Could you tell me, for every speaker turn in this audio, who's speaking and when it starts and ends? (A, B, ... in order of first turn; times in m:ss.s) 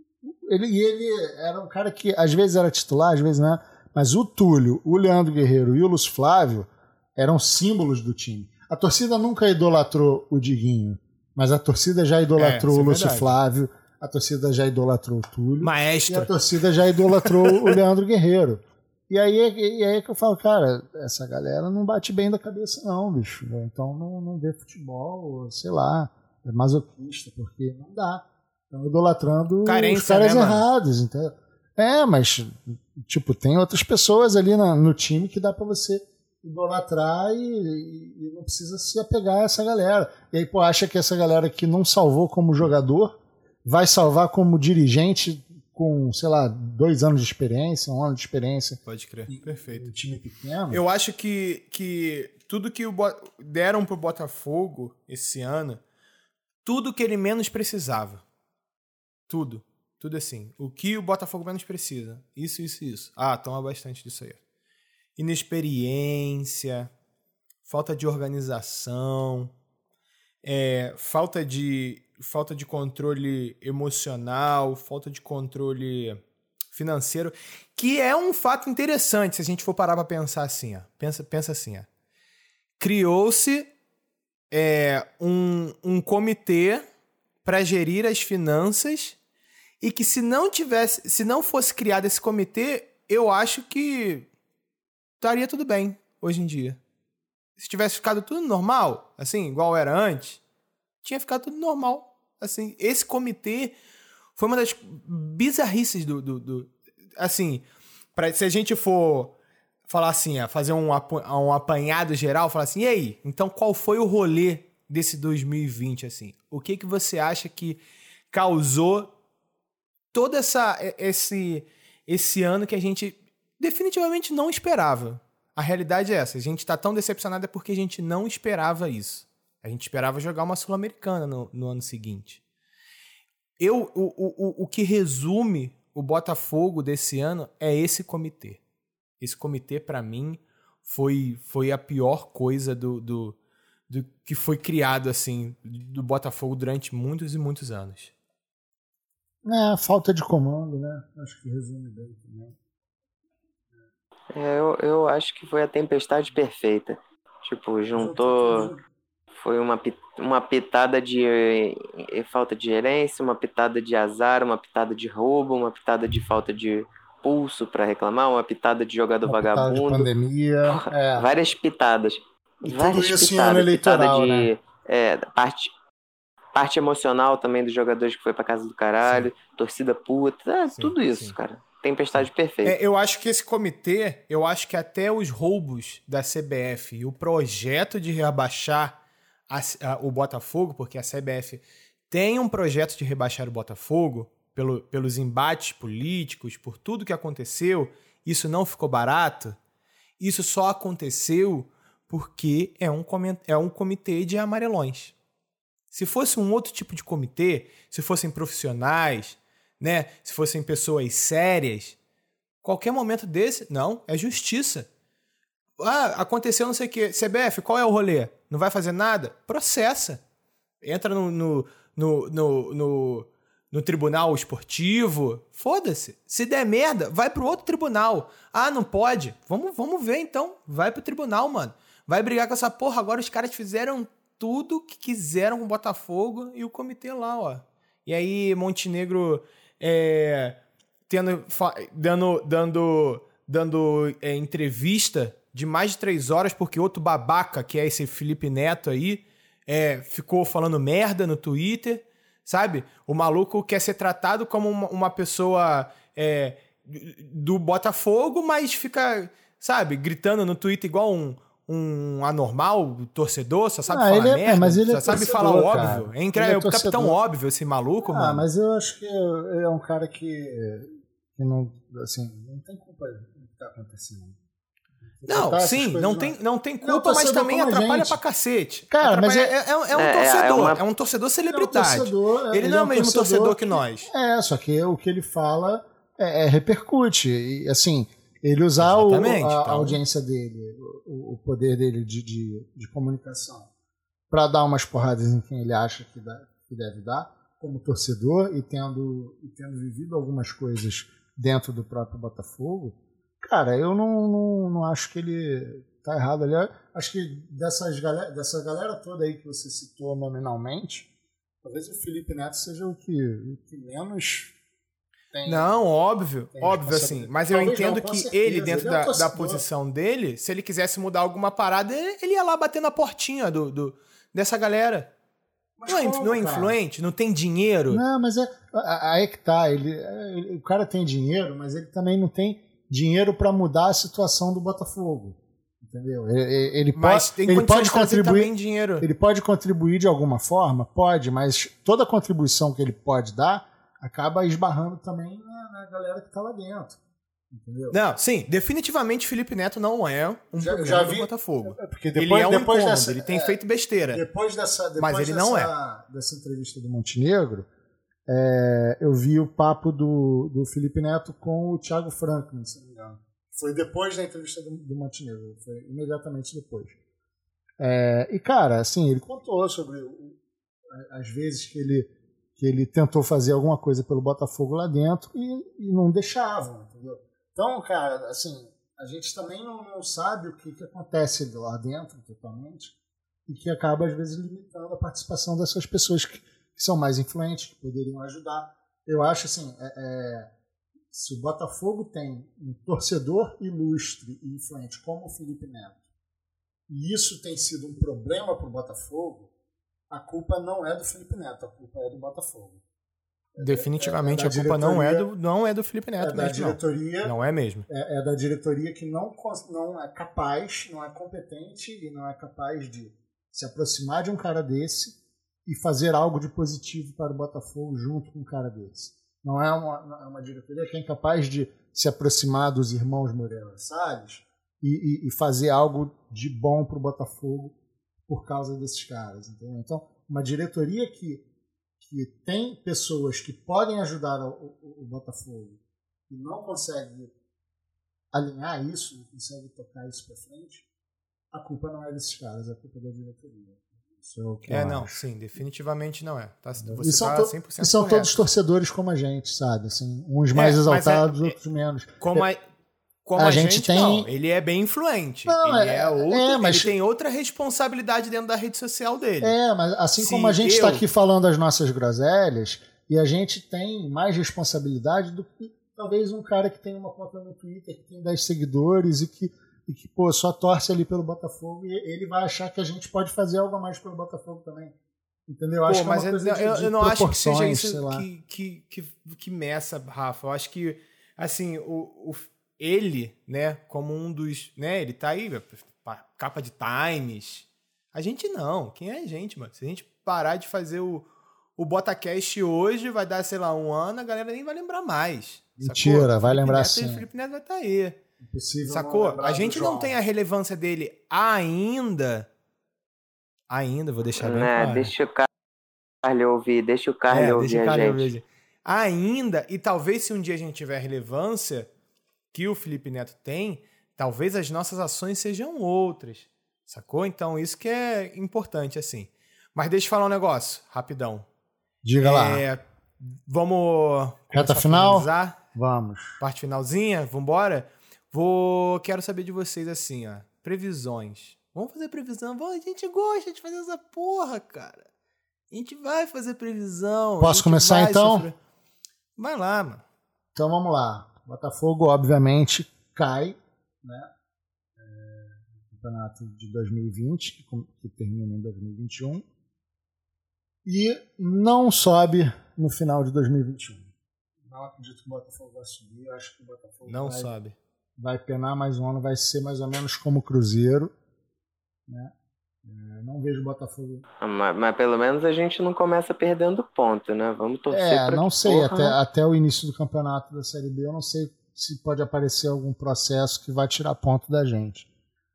0:00.3-0:50.8 A
0:12.4-0:13.4 B
0:15.6-0:16.5 B
0:17.1-0:17.8 B
0:29.6-0:30.7 B
0:48.9-0:49.9 B
0:50.7-0:55.8 B
0:56.6-0:58.2 B
0:59.3-1:04.4 B
1:05.2-1:06.9 B
1:07.7-1:09.5 B
1:10.4-1:21.9 B
1:22.8-1:23.7 B
1:24.5-1:26.8 B
1:27.4-1:29.2 B
1:29.8-1:34.3 B
1:35.2-1:36.8 B
1:37.6-1:40.4 B
1:41.0-1:43.8 B
1:44.4-1:49.4 B
1:49.9-1:59.1 B
2:00.1-2:12.4 B
2:13.6-2:18.6 B
2:19.2-2:23.4 B
2:23.9-2:28.1 B
2:29.4-2:32.6 A
2:34.3-2:38.7 C
2:38.0-2:38.8 A
2:39.3-2:50.1 C
2:49.3-2:51.3 A
2:50.6-2:55.7 C
2:52.6-2:54.5 A
2:56.6-3:02.8 C
2:59.0-2:59.3 B
3:00.7-3:01.4 B
3:02.2-3:09.0 B
3:09.5-3:19.6 B
3:20.2-3:25.2 B
3:25.9-3:32.0 B
3:32.6-3:34.9 B
3:35.8-3:40.2 B
3:40.8-4:28.5 B
4:23.9-4:27.2 A
4:28.1-4:34.4 A
4:35.2-4:38.2 A
4:35.3-4:44.1 B
4:38.9-4:39.5 A
4:39.9-4:40.8 C
4:41.5-4:53.7 A
4:48.8-4:50.0 B
4:54.3-5:11.1 A
5:11.6-5:14.6 A
5:15.3-5:15.7 A
5:15.4-5:25.1 B
5:16.6-5:19.6 A
5:25.8-5:26.8 A
5:25.9-5:28.0 B
5:27.9-5:47.0 A
5:37.0-5:39.1 B
5:47.5-5:48.0 A
5:47.9-5:54.2 B
5:50.6-5:53.6 A
5:54.1-5:57.7 A
5:55.0-5:55.7 B
5:58.3-6:07.0 A
6:07.8-6:10.4 A
6:10.9-6:23.0 A
6:23.5-6:30.5 A
6:31.1-6:36.0 A
6:36.9-6:39.5 A
6:40.1-6:42.8 A
6:43.5-6:45.3 A
6:43.6-6:47.9 B
6:46.2-6:47.3 A
6:47.9-7:07.8 A
7:08.3-7:11.5 A
7:12.0-7:17.3 A
7:18.3-7:20.8 A
7:21.5-7:25.1 A
7:24.7-7:28.4 B
7:26.8-7:32.4 A
7:30.5-7:31.6 B
7:32.2-7:32.6 B
7:33.3-7:39.6 B
7:33.4-7:34.3 A
7:35.5-7:36.9 A
7:39.4-7:55.0 A
7:40.2-7:41.0 B
7:55.5-7:58.3 A
7:55.9-8:18.2 B
8:15.8-8:17.3 A
8:18.4-8:20.2 A
8:18.9-8:22.5 B
8:23.7-8:25.1 B
8:24.4-8:25.5 C
8:26.2-8:28.3 C
8:27.3-8:31.9 B
8:32.5-8:41.5 B
8:42.0-8:42.6 A
8:42.2-8:45.6 B
8:44.5-8:46.4 A
8:46.4-8:55.1 B
8:55.7-8:58.6 B
8:57.4-8:58.5 A
8:59.4-9:00.0 B
9:00.6-9:04.3 A
9:05.0-9:09.4 A
9:10.8-9:14.1 A
9:14.6-9:17.5 A
9:17.1-9:17.8 B
9:18.2-9:21.1 A
9:22.1-9:24.2 A
9:24.4-9:29.2 C
9:27.9-9:35.1 A